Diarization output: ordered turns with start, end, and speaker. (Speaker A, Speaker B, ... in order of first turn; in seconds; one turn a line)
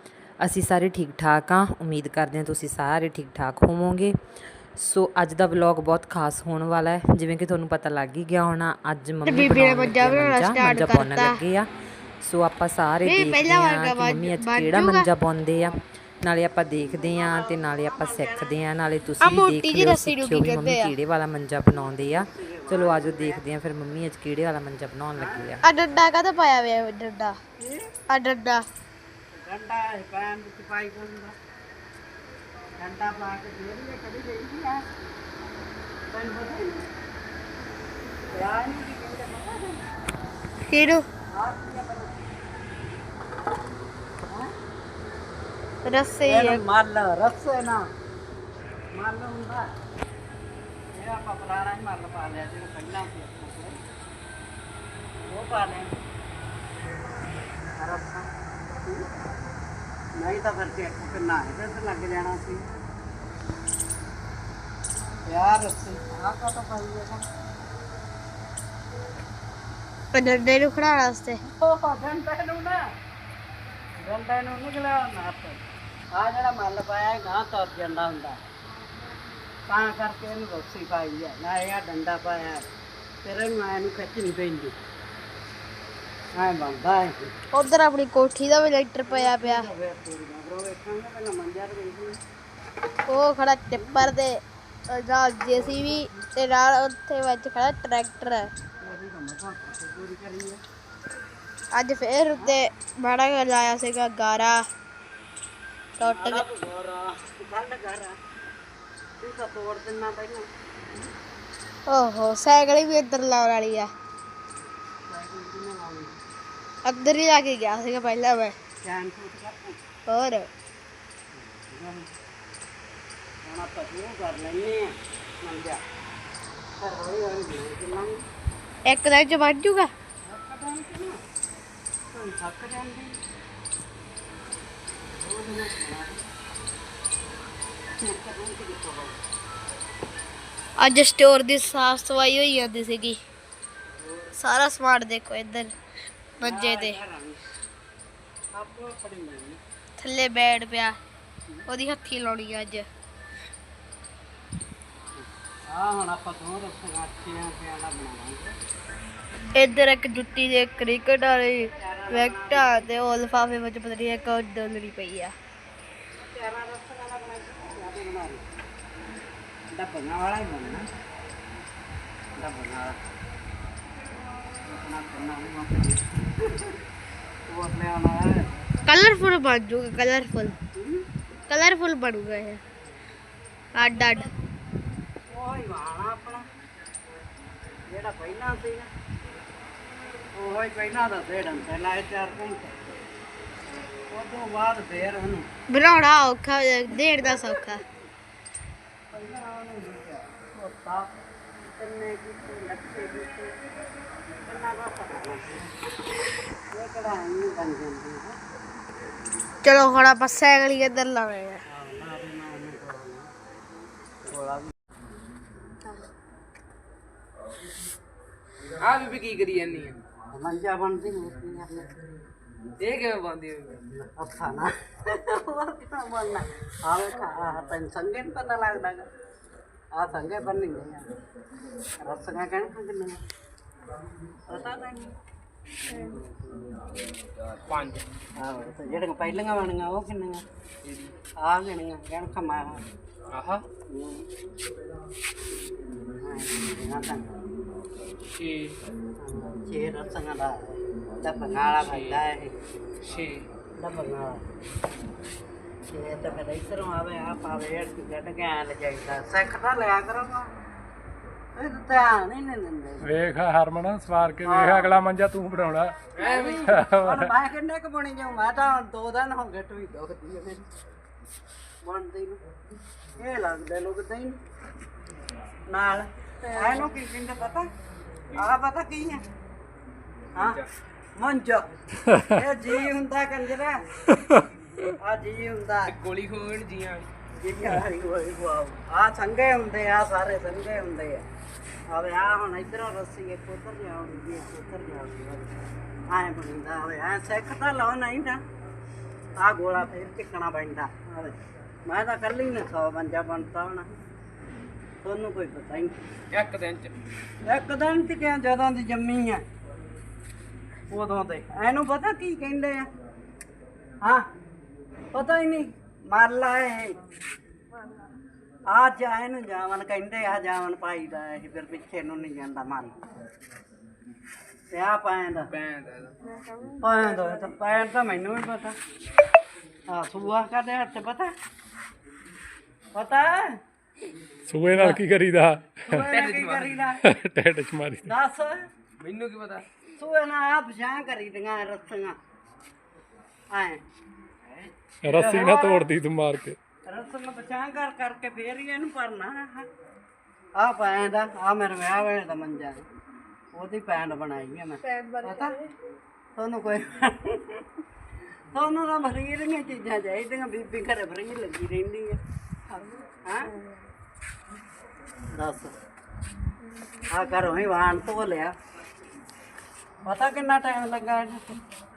Speaker A: 0.4-4.2
Speaker A: 4.8-11.7
Speaker B: 9.3-11.4
Speaker A: 12.2-25.6
Speaker B: 13.0-15.1
Speaker C: 16.8-18.6
Speaker B: 19.2-20.9
Speaker C: 21.7-23.4
Speaker C: 25.2-25.5
Speaker B: 25.6-27.4
Speaker C: 27.6-27.9
Speaker B: 28.1-28.6
Speaker C: 29.3-31.3
Speaker C: 32.8-34.8
Speaker C: 36.1-36.9
Speaker C: 38.4-39.8
Speaker B: 40.7-41.0
Speaker C: 41.4-42.1
Speaker B: 45.9-46.6
Speaker C: 46.2-47.8
Speaker C: 48.9-49.6
Speaker C: 50.9-53.8
Speaker C: 55.2-56.0
Speaker C: 57.8-58.3
Speaker C: 60.2-62.6
Speaker C: 65.3-67.2
Speaker B: 70.1-71.4
Speaker C: 71.5-72.8
Speaker C: 74.0-75.6
Speaker C: 76.1-78.4
Speaker C: 79.7-82.6
Speaker C: 83.2-84.8
Speaker C: 86.3-87.1
Speaker B: 87.5-89.7
Speaker C: 89.1-92.2
Speaker B: 93.1-98.5
Speaker C: 93.8-94.1
Speaker C: 95.5-96.1
Speaker C: 98.8-100.6
Speaker B: 101.7-104.6
Speaker B: 106.0-106.4
Speaker C: 106.0-108.1
Speaker C: 109.2-111.1
Speaker B: 111.9-113.9
Speaker C: 115.0-116.1
Speaker B: 116.8-118.5
Speaker C: 118.8-119.8
Speaker B: 120.1-120.5
Speaker C: 121.3-122.1
Speaker C: 123.5-125.8
Speaker C: 126.7-128.2
Speaker B: 128.9-129.9
Speaker C: 130.2-131.2
Speaker C: 132.1-133.1
Speaker C: 135.1-136.2
Speaker C: 138.0-139.2
Speaker B: 140.8-143.2
Speaker C: 143.9-144.3
Speaker B: 144.4-145.7
Speaker B: 146.4-147.0
Speaker C: 146.4-147.4
Speaker C: 148.6-149.6
Speaker B: 150.0-151.0
Speaker B: 151.7-152.8
Speaker C: 155.2-158.5
Speaker B: 159.6-165.3
Speaker C: 161.8-162.8
Speaker C: 166.2-168.5
Speaker C: 169.7-170.8
Speaker C: 172.3-173.0
Speaker C: 174.6-176.8
Speaker C: 177.5-178.5
Speaker B: 178.9-180.5
Speaker C: 180.8-181.1
Speaker B: 181.5-182.6
Speaker B: 183.8-184.3
Speaker C: 185.3-186.4
Speaker C: 187.9-188.9
Speaker C: 190.3-192.7
Speaker C: 194.1-195.5
Speaker B: 195.7-197.8
Speaker C: 199.1-201.1
Speaker C: 201.6-203.6
Speaker C: 204.4-205.7
Speaker C: 206.7-208.3
Speaker B: 209.6-211.6
Speaker C: 211.7-213.3
Speaker C: 214.2-214.7
Speaker D: 218.8-220.0
Speaker C: 220.3-221.9
Speaker D: 222.8-223.8
Speaker C: 223.9-229.1
Speaker C: 229.9-231.1
Speaker C: 232.0-233.2
Speaker C: 234.5-235.1
Speaker D: 237.4-238.1
Speaker C: 238.4-240.4
Speaker D: 240.8-241.1
Speaker C: 241.4-242.8
Speaker D: 243.3-243.6
Speaker C: 243.9-244.2
Speaker C: 246.2-247.4
Speaker D: 248.4-248.8
Speaker C: 249.2-252.6
Speaker D: 251.8-252.2
Speaker D: 253.1-253.5
Speaker C: 253.8-254.4
Speaker C: 255.9-260.5
Speaker C: 261.6-263.1
Speaker E: 263.0-266.0
Speaker C: 264.4-265.0
Speaker D: 266.1-266.6
Speaker C: 266.2-270.6
Speaker E: 266.6-267.3
Speaker C: 271.8-272.4
Speaker C: 273.2-274.4
Speaker C: 275.7-277.7
Speaker D: 276.5-276.9
Speaker C: 278.3-279.2
Speaker D: 280.4-280.7
Speaker C: 281.2-281.7
Speaker C: 282.3-283.8
Speaker C: 285.0-285.9
Speaker D: 285.9-287.1
Speaker C: 287.4-291.2
Speaker C: 291.9-295.5
Speaker C: 296.1-298.4
Speaker C: 299.4-303.9
Speaker C: 305.0-306.0
Speaker D: 306.3-306.9
Speaker C: 307.4-309.4
Speaker C: 310.9-312.8
Speaker C: 315.1-317.0
Speaker C: 318.7-323.0
Speaker C: 324.7-325.5
Speaker D: 325.5-326.2
Speaker C: 326.8-328.8
Speaker C: 329.9-331.3
Speaker C: 332.9-333.6
Speaker E: 334.5-336.1
Speaker C: 334.7-335.0
Speaker C: 335.9-337.0
Speaker D: 335.9-336.8
Speaker E: 337.0-338.1
Speaker C: 338.1-338.6
Speaker D: 339.0-339.6
Speaker C: 339.9-342.1
Speaker C: 343.5-343.8
Speaker C: 344.4-345.9
Speaker E: 345.0-346.6
Speaker C: 346.9-349.6
Speaker C: 350.6-352.8
Speaker C: 353.6-355.6
Speaker B: 354.9-355.4
Speaker C: 356.4-357.6
Speaker C: 358.5-362.2
Speaker C: 362.7-363.5
Speaker C: 365.3-365.8
Speaker C: 367.1-368.5
Speaker C: 370.0-371.4